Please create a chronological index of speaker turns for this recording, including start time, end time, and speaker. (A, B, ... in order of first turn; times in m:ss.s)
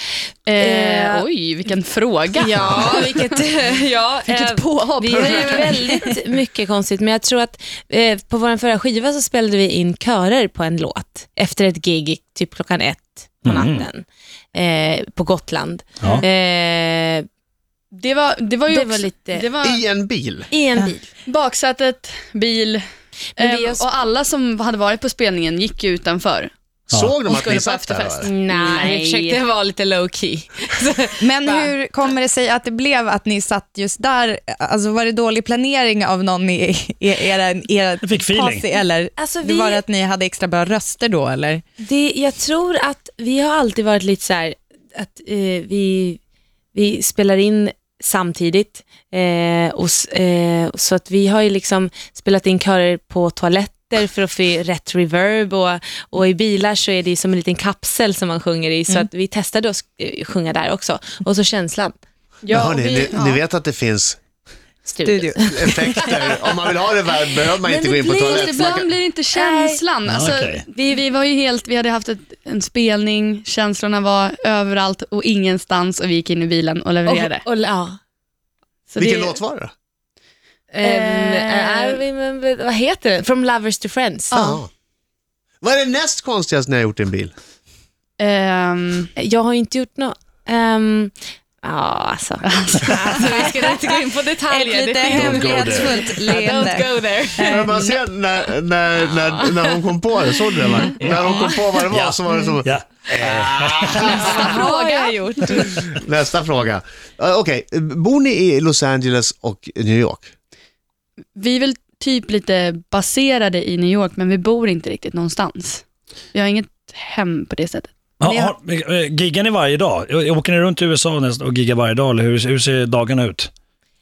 0:00.5-0:03.4 A
0:00.5-0:01.2 B
0:02.4-0:17.2 B
0:04.2-0:06.0 A
0:05.1-0:05.8 C
0:13.4-0:13.8 D
0:17.9-0:19.8 A
0:18.7-0:19.4 B
0:19.6-0:20.5 E
0:20.5-0:21.0 B
0:20.8-0:22.8 A
0:23.4-0:26.5 A
0:23.4-0:23.8 B
0:26.9-0:28.3 E
0:27.2-0:29.4 A
0:28.2-0:31.7 B
0:31.2-0:41.6 C
0:38.0-0:38.7 D
0:39.2-0:39.8 B
0:41.8-0:46.2 B
0:46.7-1:01.9 B
1:02.4-1:03.4 A
1:02.5-1:04.2 E
1:04.8-1:06.1 B
1:05.0-1:05.7 C
1:05.5-1:08.9 E
1:07.6-1:08.6 B
1:07.9-1:17.4 A
1:09.3-1:09.8 B
1:10.0-1:10.6 D
1:17.0-1:18.0 B
1:18.9-1:19.4 A
1:19.0-1:19.7 E
1:20.7-1:24.4 B
1:20.8-1:22.0 A
1:24.3-1:24.6 A
1:24.3-1:24.7 E
1:25.6-1:27.3 E
1:28.2-1:29.1 A
1:29.2-1:37.9 B
1:32.4-1:33.9 A
1:34.5-1:37.8 C
1:35.1-1:36.0 D
1:37.4-1:44.6 E
1:41.0-1:44.6 D
1:43.9-1:45.8 B
1:44.5-1:45.8 A
1:45.8-1:50.3 E
1:51.4-1:55.8 A
1:56.3-1:57.9 A
1:58.2-2:03.5 D